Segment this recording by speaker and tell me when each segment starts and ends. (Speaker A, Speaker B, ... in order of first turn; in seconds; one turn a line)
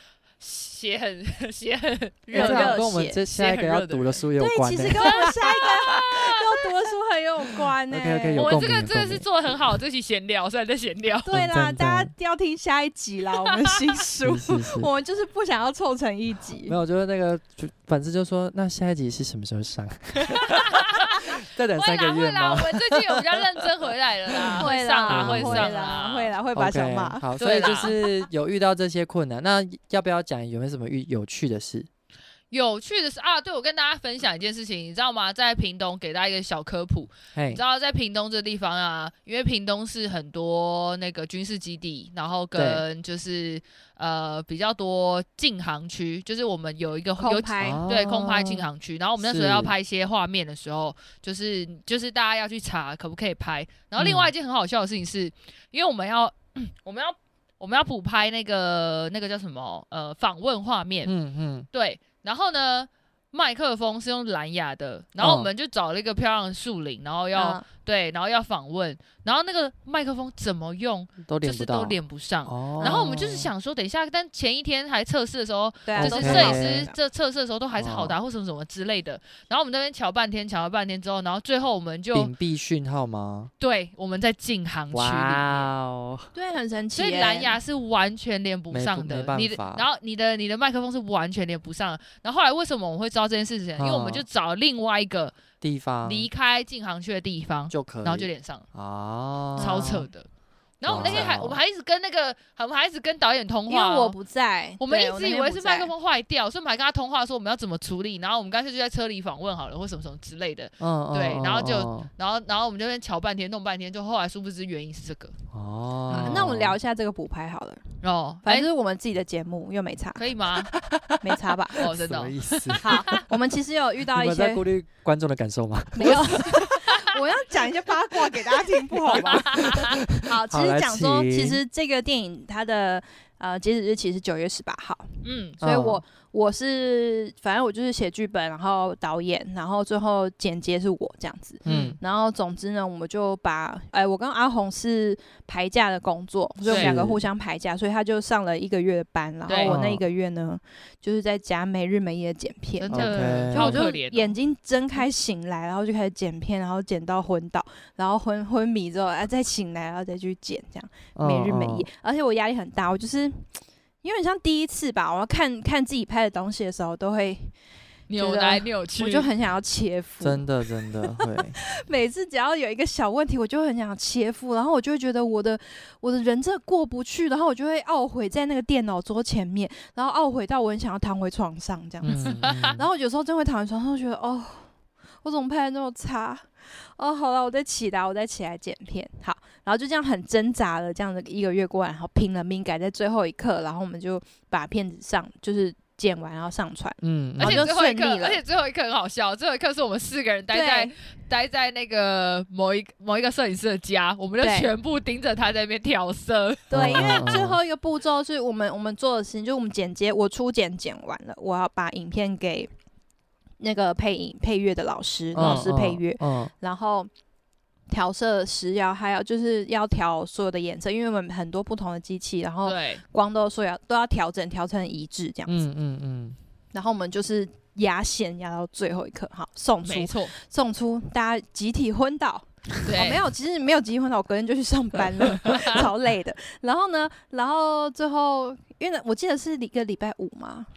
Speaker A: 0.4-4.2
Speaker B: 2.3-3.2
Speaker C: 2.3-5.6
Speaker B: 4.4-8.6
Speaker A: 5.0-6.4
Speaker C: 7.9-9.2
Speaker A: 8.4-11.3
Speaker B: 11.2-16.8
Speaker C: 11.3-12.1
Speaker C: 14.2-14.9
Speaker C: 16.6-23.6
Speaker A: 20.3-26.3
Speaker C: 24.3-25.7
Speaker B: 24.6-27.2
Speaker C: 26.5-31.9
Speaker A: 27.4-27.9
Speaker A: 32.5-61.1
Speaker C: 37.3-37.6
Speaker C: 42.5-42.8
Speaker B: 47.2-47.9
Speaker C: 47.6-48.7
Speaker C: 49.2-49.7
Speaker C: 54.0-54.3
Speaker C: 61.0-61.7
Speaker A: 61.7-82.3
Speaker C: 65.2-65.5
Speaker B: 67.3-67.6
Speaker C: 71.2-73.5
Speaker B: 72.8-73.2
Speaker B: 75.8-76.9
Speaker C: 76.0-76.8
Speaker C: 77.8-78.2
Speaker C: 82.1-83.5
Speaker A: 83.6-85.7
Speaker C: 84.9-86.3
Speaker B: 86.3-87.6
Speaker A: 87.0-95.3
Speaker C: 88.7-89.8
Speaker C: 93.8-94.2
Speaker C: 95.6-96.3
Speaker A: 96.0-98.6
Speaker C: 97.7-100.1
Speaker B: 99.6-100.0
Speaker A: 99.6-100.2
Speaker A: 100.8-104.2
Speaker C: 100.8-101.6
Speaker B: 103.7-105.9
Speaker A: 104.8-115.3
Speaker C: 110.8-112.1
Speaker C: 115.5-116.8
Speaker A: 116.1-116.4
Speaker B: 116.1-117.8
Speaker A: 118.0-118.7
Speaker B: 118.4-120.2
Speaker A: 120.2-120.7
Speaker C: 120.7-123.2
Speaker B: 121.2-121.8
Speaker A: 121.8-123.2
Speaker B: 122.8-124.6
Speaker C: 124.1-126.6
Speaker B: 125.9-163.4
Speaker A: 126.0-127.0
Speaker C: 128.9-131.6
Speaker A: 129.1-129.9
Speaker A: 135.2-135.6
Speaker C: 135.6-136.0
Speaker A: 141.7-142.0
Speaker C: 141.7-142.0
Speaker C: 146.6-147.2
Speaker A: 146.7-146.9
Speaker A: 149.5-149.8
Speaker C: 149.6-150.0
Speaker A: 152.8-154.4
Speaker C: 152.9-153.8
Speaker C: 161.2-161.9
Speaker B: 164.0-167.5
Speaker A: 168.1-169.3
Speaker B: 168.2-184.7
Speaker C: 170.2-171.6
Speaker C: 182.1-182.8
Speaker A: 182.1-182.7
Speaker B: 185.2-198.4
Speaker C: 197.0-197.7
Speaker A: 197.4-207.3
Speaker B: 200.5-200.9
Speaker B: 204.4-204.7
Speaker B: 206.7-212.7
Speaker C: 206.7-207.6
Speaker B: 213.6-217.1
Speaker C: 215.3-216.5
Speaker A: 215.4-215.7
Speaker B: 217.9-225.7
Speaker A: 222.6-223.0
Speaker C: 225.5-226.3
Speaker B: 226.7-240.7
Speaker A: 229.8-230.3
Speaker A: 232.8-233.2
Speaker A: 235.4-235.8